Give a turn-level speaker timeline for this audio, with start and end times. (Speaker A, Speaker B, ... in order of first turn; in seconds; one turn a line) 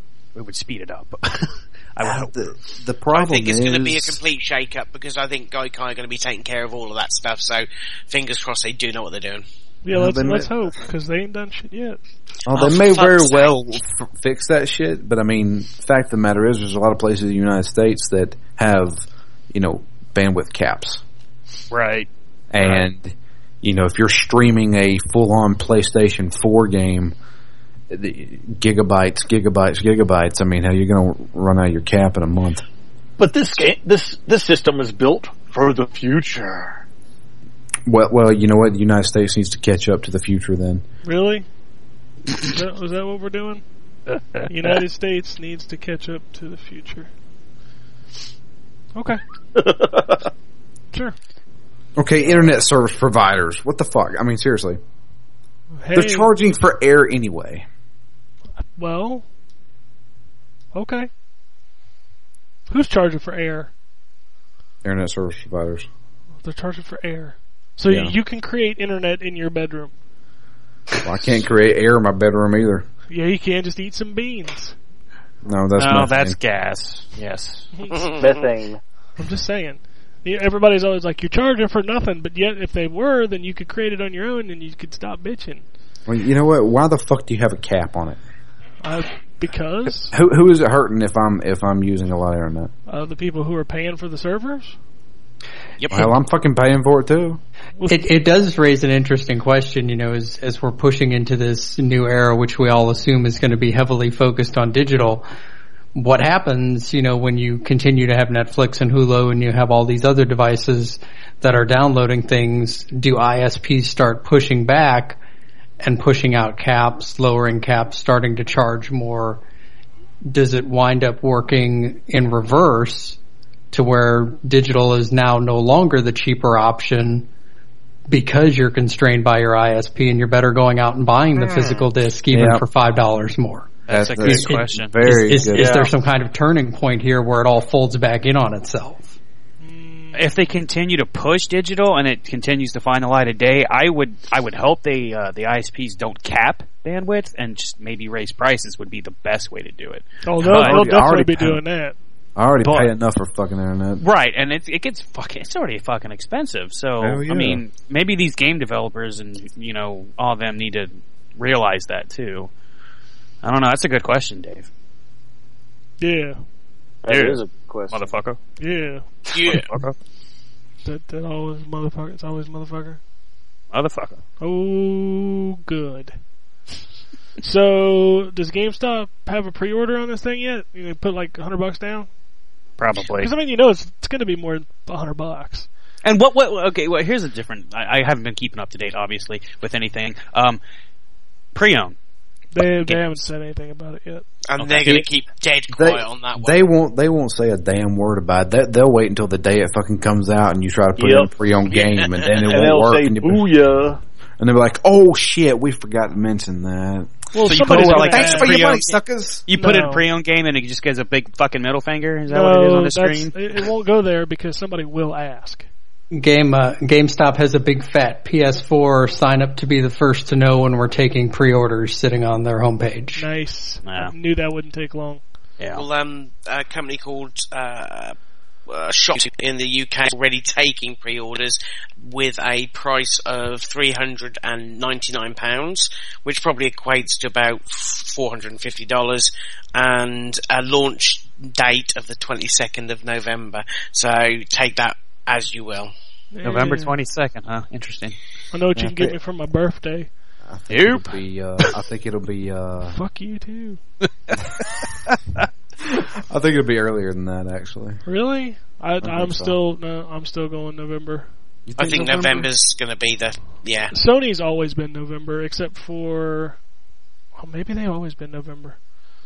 Speaker A: 0.3-2.3
Speaker B: 2.0-4.2
Speaker C: 3.1-9.4
Speaker D: 9.8-12.0
Speaker B: 9.9-10.5
Speaker B: 12.4-21.0
Speaker C: 12.5-13.5
Speaker A: 21.7-22.1
Speaker B: 22.5-27.1
Speaker A: 22.6-22.9
Speaker B: 27.9-32.6
Speaker E: 33.2-36.8
Speaker B: 37.9-40.8
Speaker D: 41.0-41.5
Speaker D: 42.4-43.6
Speaker D: 44.5-47.1
Speaker D: 48.9-49.2
Speaker E: 49.5-50.2
Speaker B: 52.0-54.8
Speaker D: 55.8-56.3
Speaker B: 55.9-57.6
Speaker D: 58.8-59.2
Speaker D: 60.7-61.1
Speaker D: 62.7-63.7
Speaker B: 64.8-65.8
Speaker D: 66.4-69.9
Speaker B: 67.8-68.1
Speaker B: 71.0-72.8
Speaker D: 73.1-74.8
Speaker B: 75.4-76.4
Speaker A: 75.8-77.7
Speaker D: 77.8-78.0
Speaker C: 77.9-78.3
Speaker E: 78.1-78.8
Speaker D: 79.2-85.6
Speaker B: 86.0-88.2
Speaker D: 88.8-90.1
Speaker B: 90.1-92.7
Speaker D: 92.9-94.8
Speaker A: 95.8-96.0
Speaker B: 95.9-97.4
Speaker F: 97.9-105.2
Speaker F: 105.9-115.2
Speaker F: 115.8-119.4
Speaker F: 120.3-123.2
Speaker F: 123.7-127.3
Speaker F: 128.1-139.1
Speaker B: 132.3-132.6
Speaker A: 133.9-135.1
Speaker B: 133.9-135.8
Speaker E: 135.5-135.9
Speaker D: 139.6-140.3
Speaker A: 140.1-150.8
Speaker D: 150.2-151.9
Speaker B: 150.4-151.6
Speaker B: 152.3-154.0
Speaker A: 152.6-152.9
Speaker A: 154.0-162.5
Speaker B: 157.0-157.6
Speaker A: 163.4-164.7
Speaker D: 166.0-166.4
Speaker E: 167.0-168.0
Speaker A: 167.1-168.4
Speaker D: 168.6-169.0
Speaker C: 169.3-169.7
Speaker A: 169.4-169.9
Speaker D: 170.8-173.0
Speaker A: 173.7-174.2
Speaker D: 174.4-176.1
Speaker D: 177.4-182.1
Speaker A: 182.8-183.3
Speaker D: 183.1-185.7
Speaker A: 186.0-190.6
Speaker A: 191.5-191.9
Speaker D: 192.5-194.2
Speaker A: 192.8-193.2
Speaker C: 194.5-196.6
Speaker A: 194.6-195.0
Speaker B: 195.7-203.5
Speaker E: 201.0-201.3
Speaker C: 201.7-202.4
Speaker E: 202.4-204.0
Speaker B: 204.4-209.4
Speaker D: 207.3-208.6
Speaker A: 207.4-208.9
Speaker A: 209.5-213.3
Speaker D: 209.5-210.0
Speaker D: 212.3-215.7
Speaker F: 216.1-223.3
Speaker D: 223.1-225.2
Speaker A: 223.8-224.1
Speaker A: 225.6-225.8
Speaker C: 225.7-228.2
Speaker C: 228.7-245.9
Speaker D: 246.3-246.9
Speaker A: 246.4-248.2
Speaker D: 248.5-250.1
Speaker B: 250.4-253.0
Speaker A: 250.7-251.1
Speaker D: 252.8-253.8
Speaker B: 255.8-258.0
Speaker D: 258.0-261.3
Speaker B: 259.0-259.6
Speaker B: 261.7-262.5
Speaker C: 261.8-263.9
Speaker D: 263.9-266.6
Speaker D: 267.4-268.8